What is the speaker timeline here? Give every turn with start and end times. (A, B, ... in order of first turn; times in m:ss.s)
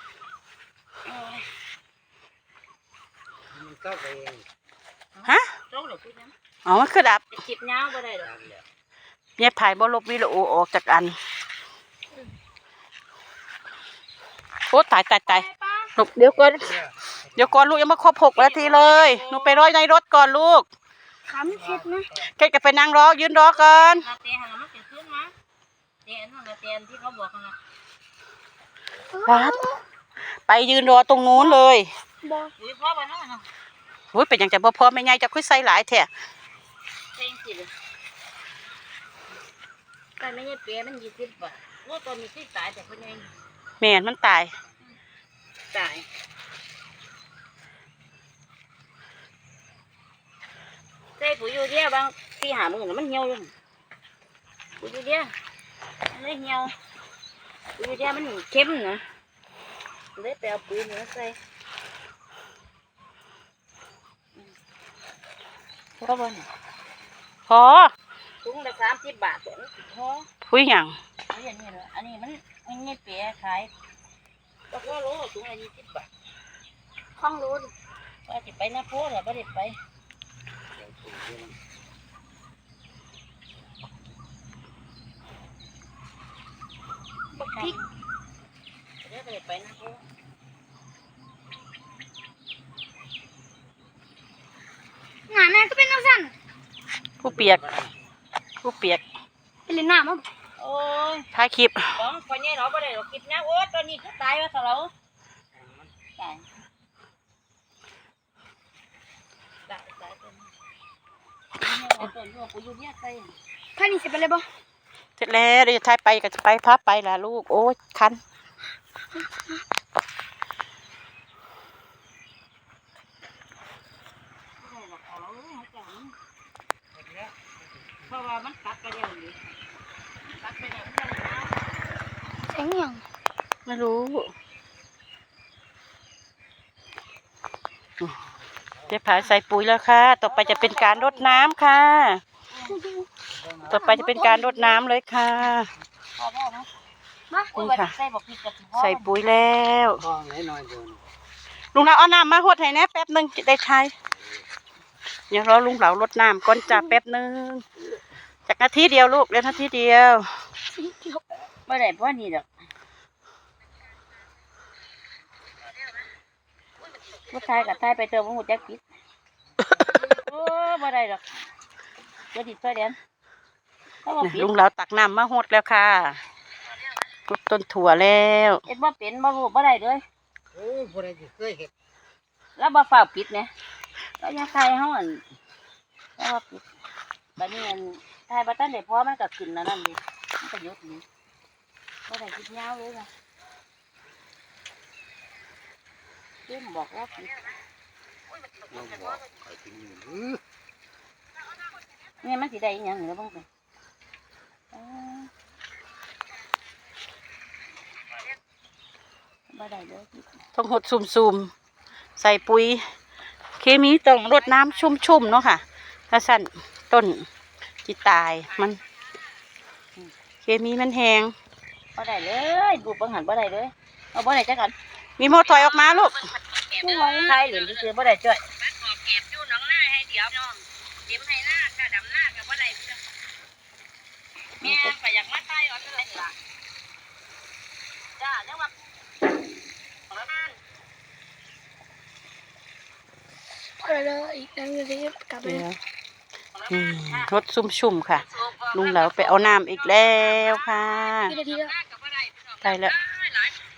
0:01.0-0:01.5 A
0:03.5-0:04.4 B
0:05.2-0:06.3 A
0:06.6-0:07.3 C
0:07.3-0:08.4 A
0:08.3-0:08.6 B
0:09.4-0:11.2 C
0:14.7-0:16.5 C
0:15.2-0:15.9 A
0:16.2-0:16.7 D
0:16.5-0:16.9 B
0:17.3-0:20.6 C
0:18.3-0:19.7 A
0:21.3-0:22.1 D
0:22.2-0:24.0 C
0:23.5-0:25.3 A
0:26.0-0:27.6 A
0:29.1-0:29.8 D
0:29.2-0:29.6 C
0:30.3-0:31.9 C
0:32.2-0:32.5 D
0:32.6-0:33.4 A
0:34.1-0:36.1 C
0:37.1-0:37.7 A
0:40.2-0:43.3 A
0:43.8-0:44.5 C
0:45.7-0:46.1 A
0:51.2-0:53.5 A
0:54.8-0:55.3 A
0:56.1-0:56.7 A
0:57.8-0:59.0 A
1:00.2-1:01.4 A
1:06.0-1:06.5 A
1:07.5-1:07.9 C
1:08.4-1:10.3 A
1:10.4-1:11.0 C
1:11.3-1:13.7 A
1:14.7-1:16.1 A
1:17.2-1:17.7 D
1:18.3-1:19.8 A
1:21.0-1:21.4 B
1:27.4-1:27.8 A
1:27.5-1:27.8 D
1:29.0-1:30.0 A
1:35.3-1:36.3 D
1:37.2-1:37.6 C
1:37.5-1:37.9 B
1:38.6-1:39.0 C
1:39.7-1:40.3 D
1:40.6-1:41.3 A
1:41.3-1:41.9 C
1:41.9-1:44.9 A
1:45.6-1:45.9 B
1:46.2-1:46.4 A
1:49.7-1:50.5 A
1:51.6-1:53.3 A
1:53.8-1:54.4 D
1:55.2-1:58.2 C
1:59.2-1:59.6 D
2:04.6-2:06.1 A
2:06.9-2:08.1 B
2:08.1-2:09.4 A
2:10.3-2:11.5 A
2:12.5-2:13.0 D
2:13.6-2:14.3 C
2:18.9-2:22.2 C
2:20.2-2:21.4 A
2:22.5-2:22.8 A
2:22.6-2:23.1 D
2:23.3-2:23.8 B
2:23.7-2:25.7 C
2:23.7-2:24.7 D
2:26.2-2:26.7 A
2:27.4-2:29.1 A
2:27.5-2:27.9 C
2:28.8-2:30.0 C
2:30.1-2:31.0 B
2:31.7-2:33.9 C
2:35.3-2:37.6 C
2:38.5-2:40.3 C
2:40.7-2:41.2 D
2:41.6-2:42.4 A
2:47.1-2:48.8 A
2:49.9-2:51.2 A
2:52.3-2:53.0 A
2:54.0-2:54.5 A
2:54.2-2:56.2 C
2:57.3-2:58.6 C
2:58.7-3:00.0 A
3:00.5-3:01.7 B
3:02.6-3:03.5 A
3:04.2-3:05.2 A
3:06.2-3:06.6 A
3:07.4-3:11.0 A
3:12.1-3:13.1 A
3:16.5-3:17.5 A
3:18.6-3:19.2 A
3:18.7-3:20.4 B
3:22.2-3:23.4 A
3:24.7-3:25.3 A
3:29.5-3:30.3 A
3:30.5-3:31.5 C
3:32.2-3:32.8 C
3:33.6-3:37.3 C
3:37.8-3:38.8 C
3:40.4-3:41.3 C
3:42.0-3:44.8 A
3:45.2-3:46.2 C
3:45.4-3:53.0 A
3:54.6-3:56.4 A
3:54.6-3:54.9 C
3:58.2-3:58.7 A
4:00.1-4:00.5 A
4:03.8-4:05.6 D
4:05.4-4:05.8 C
4:06.6-4:07.3 A
4:06.7-4:11.4 C
4:08.2-4:13.6 A
4:11.3-4:11.7 D
4:12.6-4:12.9 C